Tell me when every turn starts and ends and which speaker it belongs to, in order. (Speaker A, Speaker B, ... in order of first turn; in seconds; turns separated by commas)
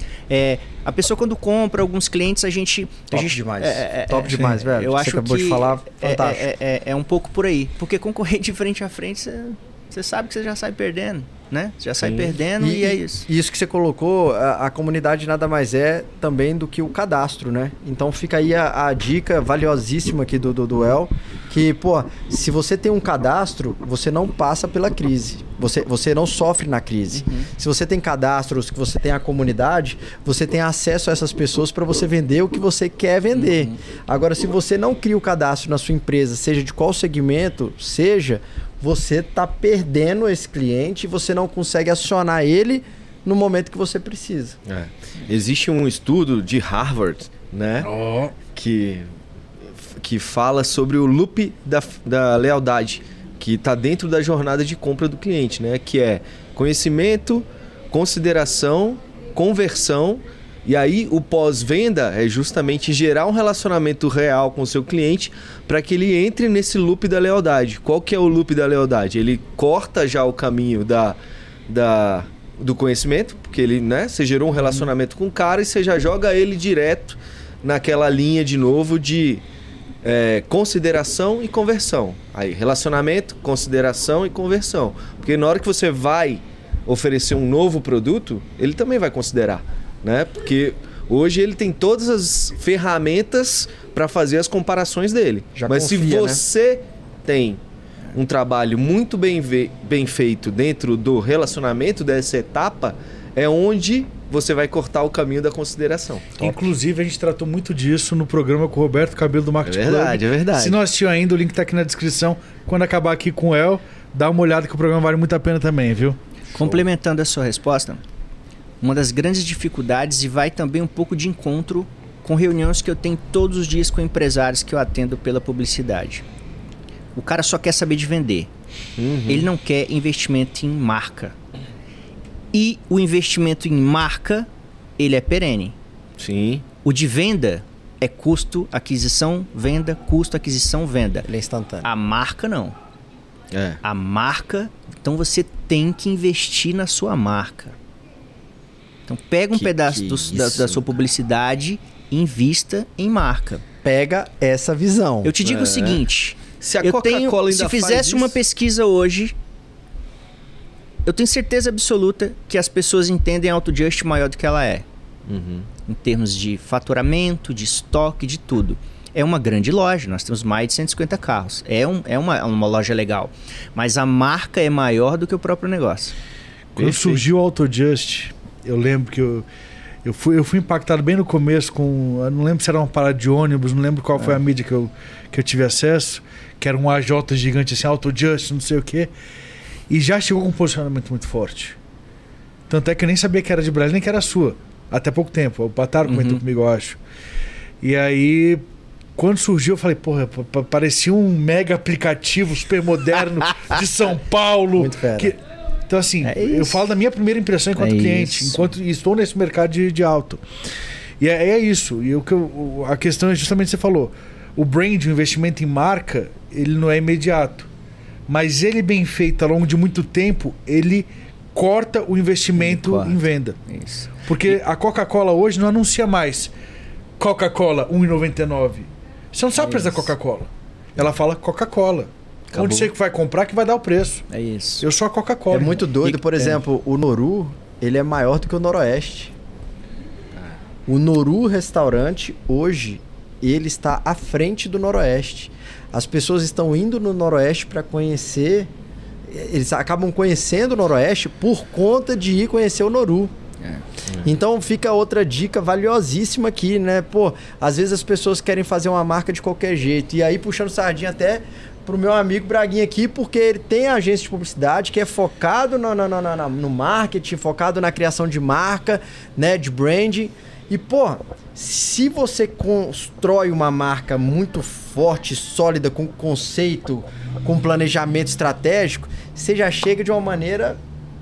Speaker A: 0.3-13.3, Speaker B: 3.1-6.5, Speaker C: 12.0-12.3, Speaker B: 12.6-44.6, Speaker A: 27.2-27.5, Speaker A: 33.3-33.7, Speaker C: 44.6-47.9, Speaker D: 47.8-48.3, Speaker C: 48.5-49.1, Speaker C: 49.9-71.2, Speaker C: 71.7-79.4, Speaker C: 80.0-97.6, Speaker B: 95.5-96.4, Speaker C: 98.1-106.5, Speaker D: 106.4-116.2, Speaker C: 109.6-110.8, Speaker A: 116.5-118.0, Speaker C: 116.5-116.8, Speaker A: 118.8-126.2, Speaker A: 127.1-128.5, Speaker C: 129.0-129.5, Speaker A: 129.3-131.3, Speaker A: 132.5-135.7, Speaker C: 136.2-136.6, Speaker A: 136.8-141.2, Speaker B: 141.2-141.9, Speaker A: 141.8-142.8, Speaker C: 143.5-143.8, Speaker A: 143.8-147.7, Speaker A: 149.1-153.6, Speaker C: 149.6-150.8, Speaker B: 153.8-155.3, Speaker A: 155.2-159.3, Speaker C: 155.4-156.0, Speaker C: 156.6-158.4, Speaker A: 161.0-164.8, Speaker C: 165.3-165.7, Speaker A: 165.8-176.1, Speaker C: 176.8-177.2, Speaker D: 176.8-179.4, Speaker D: 180.0-189.1, Speaker D: 189.9-191.8, Speaker D: 192.7-197.0, Speaker A: 196.0-196.4, Speaker D: 197.8-198.6, Speaker D: 199.2-210.4, Speaker B: 204.8-205.3, Speaker A: 206.2-206.8, Speaker A: 207.8-208.7, Speaker D: 211.2-217.7, Speaker D: 218.3-223.6, Speaker A: 222.6-224.6, Speaker D: 224.2-226.5, Speaker D: 227.2-234.2, Speaker A: 229.6-230.1, Speaker C: 232.5-232.9, Speaker A: 234.3-234.8, Speaker D: 234.8-235.8, Speaker B: 235.5-239.3, Speaker A: 236.0-236.6, Speaker B: 240.9-248.7, Speaker B: 249.2-253.3, Speaker B: 254.2-280.8